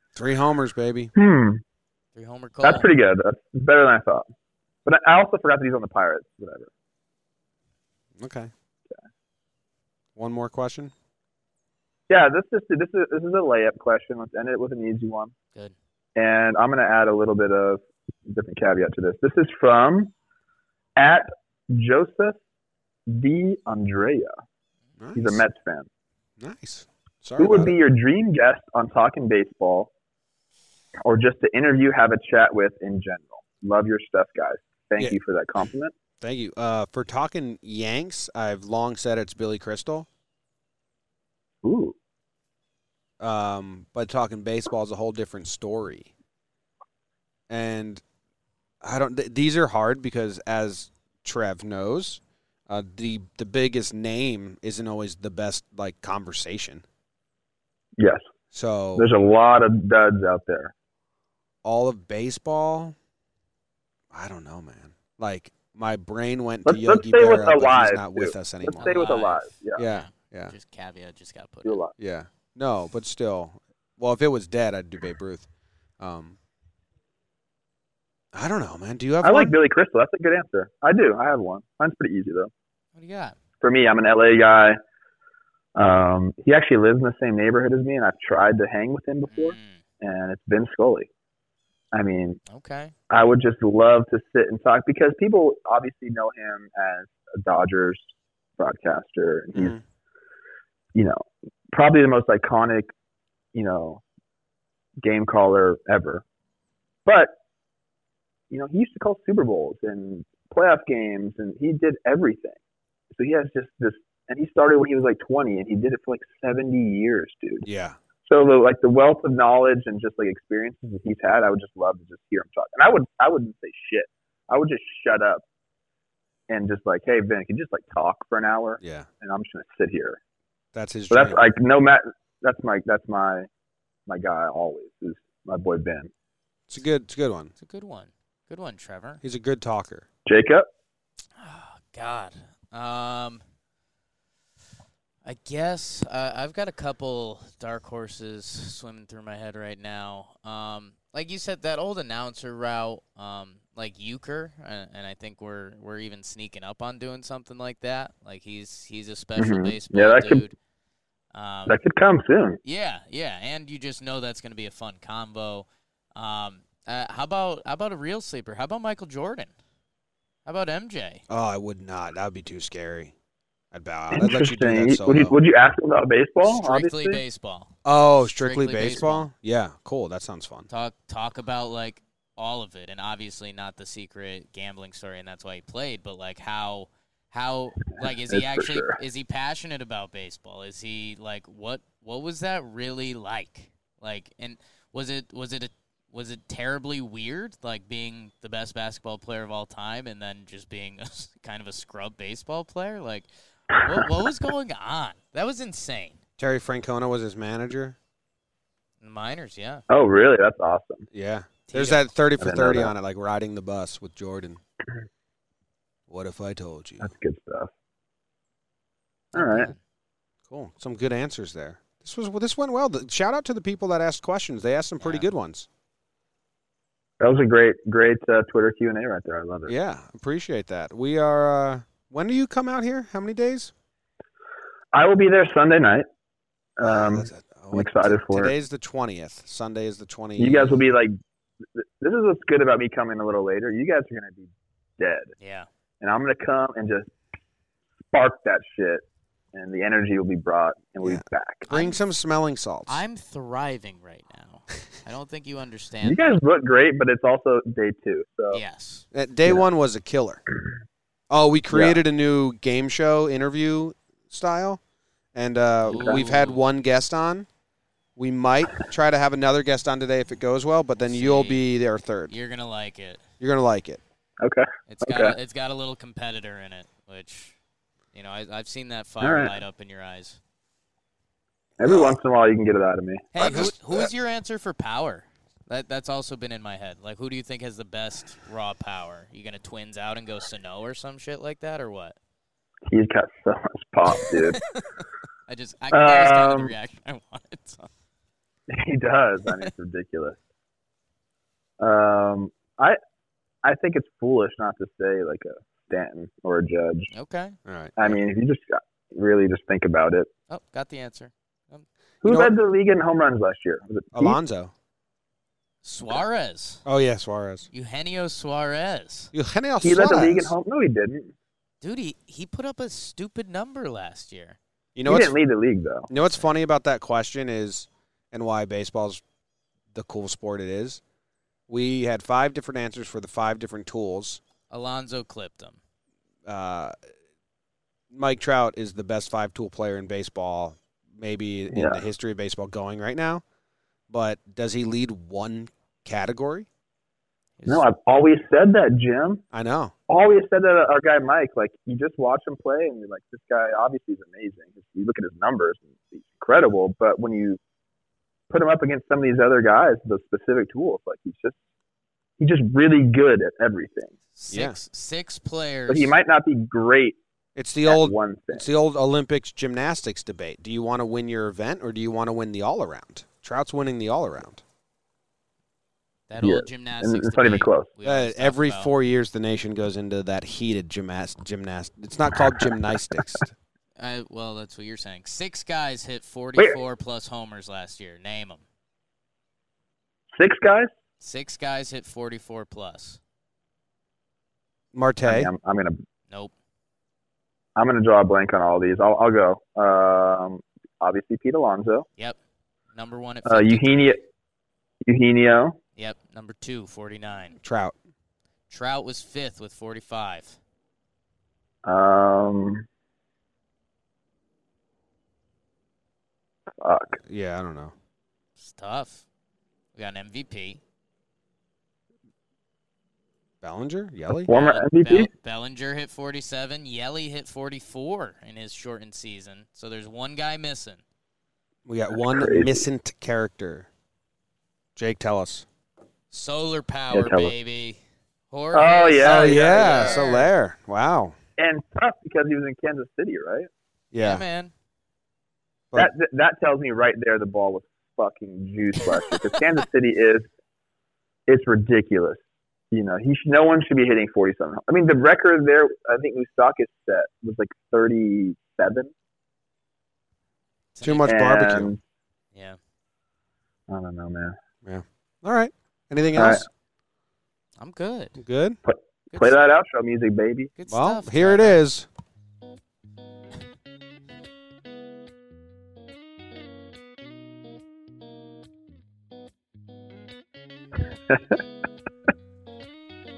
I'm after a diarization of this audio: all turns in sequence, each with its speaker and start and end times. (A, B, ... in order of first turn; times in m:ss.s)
0:00.2-0:01.1 A
0:01.2-0:01.6 B
0:02.2-0:02.9 C
0:02.6-0:04.3 B
0:04.8-0:06.7 B
0:08.2-0:08.5 A
0:10.2-0:10.9 A
0:12.1-0:15.3 B
0:16.2-0:20.1 B
0:21.0-0:22.4 B
0:23.1-0:24.3 B
0:25.0-0:25.4 A
0:25.2-0:25.9 B
0:26.4-0:27.8 A
0:27.4-0:29.9 B
0:31.0-0:35.9 B
0:36.2-0:40.1 A
0:41.6-0:42.0 B
0:43.2-0:46.1 A
0:47.5-0:48.0 A
0:48.8-0:56.8 A
0:58.0-0:58.2 B
0:58.5-0:59.1 A
0:59.0-1:00.7 B
1:01.6-1:03.0 A
1:04.1-1:09.0 A
1:06.7-1:09.8 B
1:08.8-1:11.8 C
1:09.8-1:10.5 A
1:11.6-1:12.0 B
1:12.0-1:15.5 A
1:16.0-1:16.4 A
1:18.3-1:19.5 A
1:19.2-1:22.5 B
1:23.0-1:23.4 C
1:23.6-1:24.8 B
1:25.8-1:31.1 B
1:29.3-1:29.8 C
1:31.9-1:32.4 B
1:32.5-1:32.9 C
1:33.1-1:39.8 B
1:39.6-1:39.8 A
1:41.0-1:42.9 B
1:43.5-1:44.0 B
1:45.0-1:46.2 B
1:47.1-1:47.3 B
1:48.5-1:52.6 B
1:53.1-1:57.6 B
1:57.6-1:58.0 A
1:58.2-2:05.4 B
2:06.5-2:10.2 B
2:08.8-2:09.1 A
2:10.8-2:11.4 A
2:11.1-2:13.5 B
2:14.1-2:16.1 B
2:16.7-2:17.5 A
2:17.6-2:19.2 C
2:19.2-2:20.1 A
2:20.3-2:20.7 B
2:21.4-2:23.4 C
2:25.2-2:40.6 C
2:39.4-2:40.4 B
2:41.3-2:41.8 C
2:41.7-2:42.6 B
2:42.6-2:49.5 C
2:50.5-2:51.2 C
2:51.3-2:53.1 A
2:53.7-2:55.4 A
2:54.1-2:57.2 B
2:56.4-2:59.3 C
2:57.8-3:00.7 A
3:00.7-3:26.2 C
3:08.3-3:09.0 B
3:26.4-3:28.0 A
3:29.0-3:29.8 C
3:29.9-3:31.1 B
3:31.1-3:34.6 A
3:31.7-3:32.0 C
3:32.4-3:32.9 B
3:36.1-3:37.1 A
3:37.0-3:37.7 B
3:39.3-3:39.7 B
3:39.4-3:39.8 C
3:40.5-3:45.7 A
3:45.0-3:45.3 C
3:47.2-3:49.7 B
3:49.7-3:53.7 A
3:54.9-3:56.1 B
3:56.8-3:58.5 B
3:56.8-4:00.8 A
4:00.4-4:01.2 B
4:01.7-4:05.3 B
4:05.4-4:05.7 C
4:06.0-4:07.1 B
4:08.1-4:11.7 B
4:11.0-4:13.0 A
4:11.7-4:12.0 C
4:12.9-4:16.2 C
4:16.0-4:18.6 B
4:18.5-4:19.1 C
4:19.1-4:20.4 A
4:21.3-4:24.8 A
4:21.7-4:22.0 B
4:25.3-4:27.5 A
4:25.8-4:26.6 C
4:28.2-4:32.3 A
4:31.0-4:31.6 C
4:32.3-4:33.2 C
4:33.4-4:34.0 A
4:34.4-4:35.4 B
4:34.9-4:37.6 C
4:38.1-4:40.4 C
4:39.2-4:39.6 B
4:41.8-4:44.1 B
4:41.8-4:42.2 A
4:43.3-4:52.2 C
4:43.4-4:43.8 A
4:52.9-4:54.6 B
4:54.2-4:54.6 C
4:55.5-4:57.9 C
4:55.9-4:56.7 B
4:58.7-5:00.4 B
5:01.8-5:03.0 B
5:03.6-5:07.1 B
5:07.1-5:07.6 C
5:07.7-5:08.2 A
5:08.0-5:10.3 B
5:10.5-5:11.9 C
5:12.2-5:14.4 B
5:12.2-5:12.5 A
5:14.1-5:14.7 A
5:15.8-5:16.8 C
5:16.8-5:17.7 A
5:17.7-5:19.3 C
5:19.3-5:20.5 A
5:19.8-5:21.3 B
5:21.8-5:24.6 C
5:25.0-5:25.4 A
5:25.0-5:26.1 B
5:26.1-5:29.2 A
5:29.9-5:31.0 A
5:31.7-5:34.4 A
5:34.7-5:35.8 C
5:36.5-5:37.0 A
5:38.1-5:43.4 A
5:41.7-5:42.0 B
5:44.1-5:46.7 A
5:47.6-5:47.8 C
5:47.7-5:49.4 B
5:49.5-5:49.9 A
5:50.1-5:57.6 B
5:58.5-6:01.6 B
6:02.4-6:04.1 B
6:04.4-6:06.1 C
6:04.5-6:04.8 A
6:05.9-6:07.2 B
6:07.6-6:14.6 A
6:07.9-6:08.7 B
6:16.3-6:18.9 C
6:16.4-6:17.9 B
6:18.0-6:23.5 A
6:24.0-6:28.6 C
6:30.3-6:30.9 B
6:31.2-6:33.2 C
6:34.9-6:35.5 A
6:35.2-6:36.0 B
6:37.8-6:42.1 B
6:42.9-6:44.2 C
6:43.4-6:44.2 B
6:45.0-6:45.8 B
6:46.0-6:47.6 C
6:47.6-6:48.0 A
6:48.7-6:50.6 C
6:51.8-6:52.9 B
6:56.8-6:57.2 B
6:57.2-6:57.9 A
6:58.6-6:59.2 C
7:00.0-7:00.8 C
7:03.6-7:04.5 A
7:04.5-7:05.3 B
7:04.5-7:11.0 C
7:11.9-7:13.9 A
7:12.1-7:12.8 B
7:15.0-7:15.7 A
7:16.3-7:18.0 C
7:17.1-7:17.5 B
7:18.5-7:20.5 C
7:18.7-7:20.3 B
7:19.2-7:21.4 A
7:21.6-7:23.7 B
7:24.1-7:24.4 A
7:24.2-7:24.7 C
7:26.0-7:30.5 B
7:31.5-7:39.1 B
7:41.0-7:41.3 C
7:41.0-7:41.9 A
7:41.3-7:42.0 B
7:43.9-7:44.6 B
7:44.8-7:46.7 A
7:46.4-7:46.7 B
7:47.8-7:48.4 C
7:48.4-7:48.8 A
7:48.9-7:50.7 B
7:49.3-7:49.6 C
7:50.8-7:51.9 C
7:50.9-7:52.1 A
8:01.3-8:01.6 B